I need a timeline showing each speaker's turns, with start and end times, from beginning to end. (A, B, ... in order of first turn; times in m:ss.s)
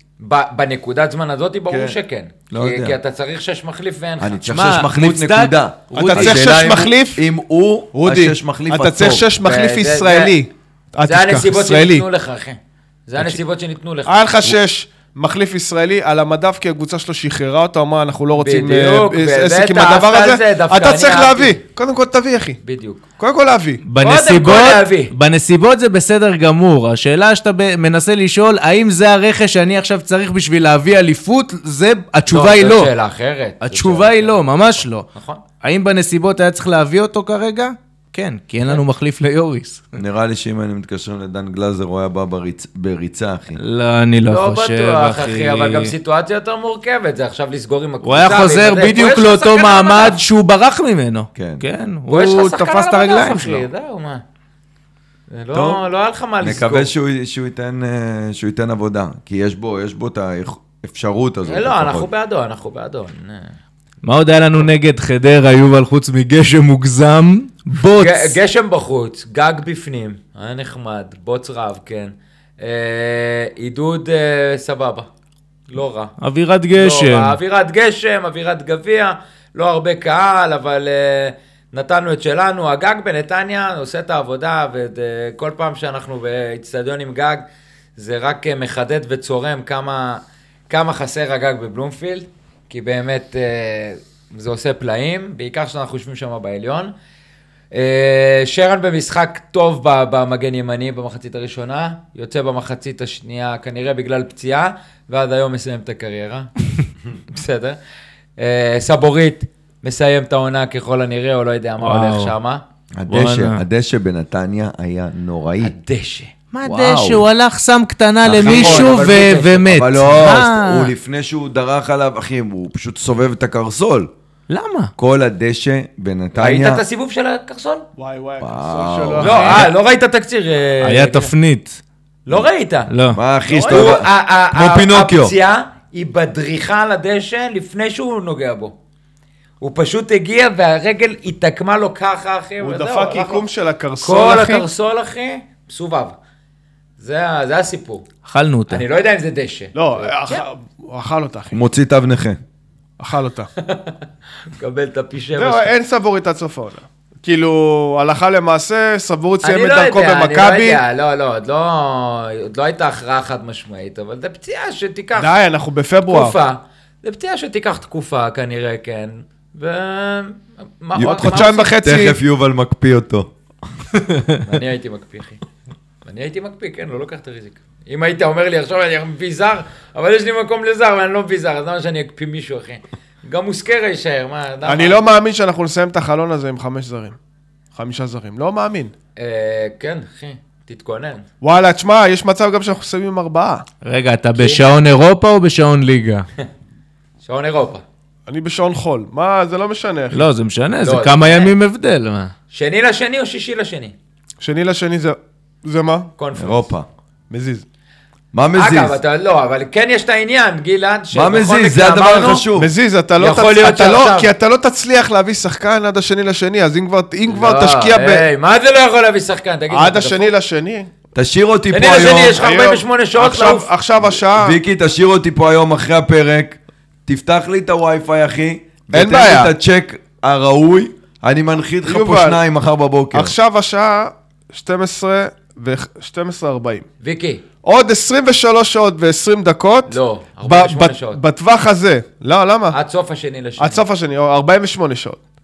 0:00.2-0:04.5 A
0:01.7-0:02.0 B
0:02.5-0:03.0 B
0:04.2-0:09.3 B
0:04.5-0:06.5 C
0:06.0-0:07.2 D
0:07.9-0:12.0 D
0:09.4-0:10.4 A
0:11.1-0:14.2 A
0:14.1-0:22.6 D
0:18.3-0:21.6 A
0:22.6-0:23.0 A
0:23.2-0:23.8 D
0:23.9-0:32.9 C
0:24.0-0:25.1 A
0:32.3-0:35.4 A
0:33.6-0:35.1 C
0:35.6-0:39.8 C
0:40.0-0:43.6 B
0:43.6-0:45.9 C
0:44.3-0:50.2 A
0:48.0-0:53.6 C
0:51.4-0:51.6 B
0:52.1-0:54.2 A
0:55.3-0:56.9 A
0:55.5-0:55.8 B
0:56.4-1:02.1 B
1:01.5-1:03.6 A
1:04.0-1:08.4 C
1:08.0-1:15.1 A
1:15.7-1:16.1 A
1:16.2-1:17.4 C
1:16.7-1:27.4 A
1:28.0-1:36.9 A
1:37.7-1:46.8 A
1:47.3-1:47.8 A
1:48.4-1:52.6 A
1:51.8-1:52.3 C
1:53.0-1:55.7 B
1:53.1-1:53.6 C
1:55.6-1:56.3 A
1:56.5-2:00.9 C
1:56.6-1:57.3 B
1:58.2-1:59.0 B
1:58.3-1:59.8 A
1:59.7-2:04.1 B
2:04.5-2:04.9 C
2:05.0-2:06.8 B
2:06.4-2:07.8 A
2:08.0-2:09.7 D
2:08.4-2:09.6 B
2:09.2-2:11.3 A
2:09.2-2:09.7 C
2:10.8-2:11.8 C
2:12.3-2:12.9 A
2:12.9-2:13.2 C
2:13.1-2:15.3 B
2:13.5-2:14.0 D
2:13.7-2:18.7 A
2:19.6-2:23.4 A
2:22.6-2:24.7 D
2:24.0-2:26.2 A
2:27.0-2:28.1 A
2:28.3-2:28.8 C
2:28.7-2:30.4 A
2:29.8-2:31.6 D
2:31.5-2:32.4 B
2:33.0-2:33.5 D
2:33.6-2:34.0 A
2:34.5-2:35.7 A
2:35.4-2:40.8 D
2:39.4-2:45.3 A
2:45.2-2:46.4 D
2:46.1-2:51.8 A
2:51.0-2:53.3 B
2:51.0-2:52.2 D
2:54.0-2:54.4 C
2:54.4-2:55.4 A
2:56.0-3:05.0 A
3:04.6-3:07.2 D
3:07.8-3:08.9 D
3:09.2-3:11.3 A
3:11.4-3:13.6 D
3:13.8-3:16.3 C
3:17.2-3:17.8 A
3:18.3-3:20.3 D
3:20.1-3:22.3 C
3:20.8-3:21.5 A
3:22.5-3:24.0 A
3:24.4-3:26.1 D
3:26.2-3:26.7 A
3:26.4-3:26.9 B
3:27.3-3:27.6 D
3:28.3-3:29.0 B
3:28.6-3:32.5 A
3:31.1-3:32.7 B
3:32.6-3:38.2 D
3:33.2-3:34.3 A
3:37.3-3:40.3 A
3:39.7-3:40.9 D
3:41.2-3:42.4 B
3:41.7-3:43.7 A
3:42.4-3:44.6 D
3:44.1-3:53.4 B
3:48.9-3:49.5 D
3:51.8-3:52.4 D
3:53.1-3:56.9 D
3:57.0-3:57.4 A
3:57.6-4:02.8 D
3:59.9-4:01.2 A
4:02.7-4:03.8 A
4:03.6-4:05.2 D